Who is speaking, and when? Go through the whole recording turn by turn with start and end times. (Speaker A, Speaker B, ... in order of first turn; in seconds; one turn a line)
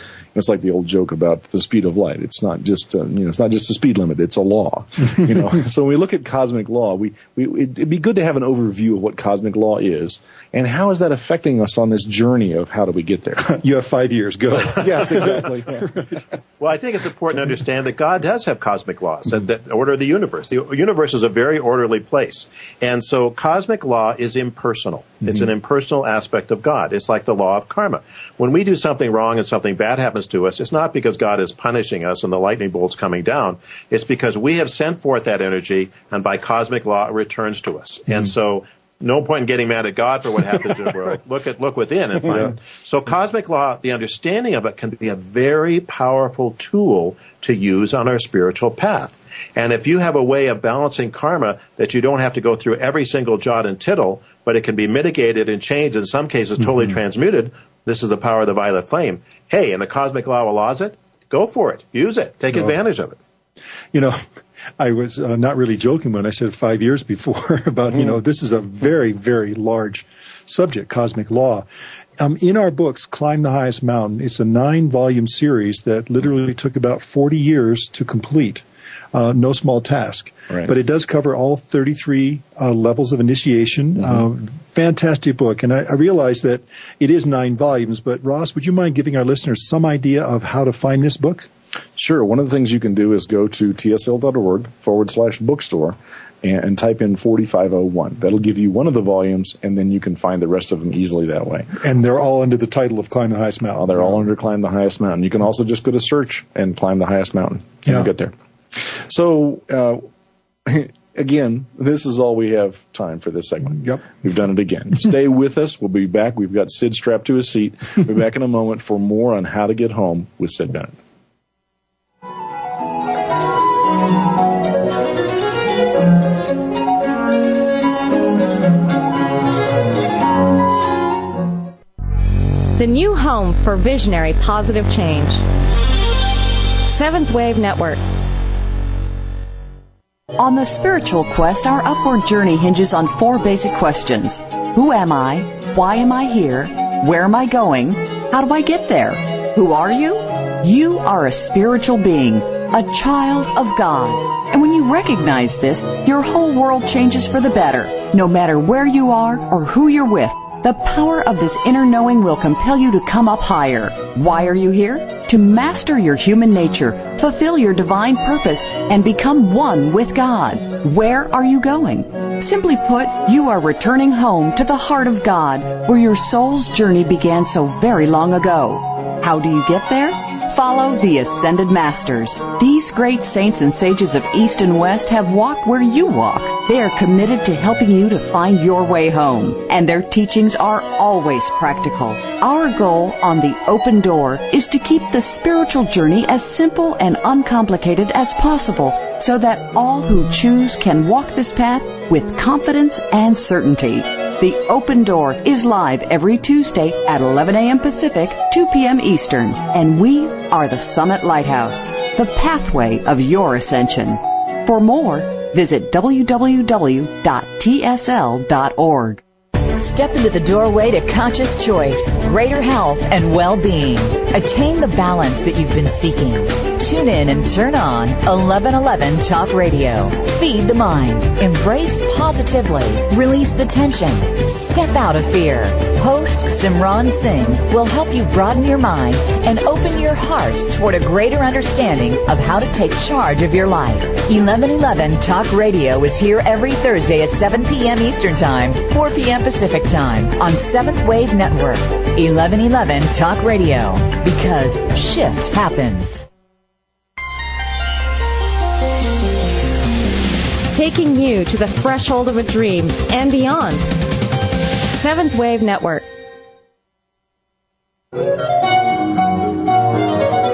Speaker A: 0.3-13.5
Speaker B: 13.4-16.1
Speaker A: 14.7-15.9
Speaker C: 16.6-63.2
Speaker B: 63.9-64.2
Speaker B: 64.8-71.7
Speaker B: 72.2-91.5
Speaker A: 92.0-101.8
Speaker B: 101.8-104.0
Speaker A: 103.8-110.1
Speaker A: 110.7-121.0
Speaker D: 132.8-135.4
Speaker D: 136.8-138.0
Speaker E: 140.4-219.2
Speaker F: 219.7-256.3
Speaker D: 260.7-264.0
Speaker D: 264.8-266.1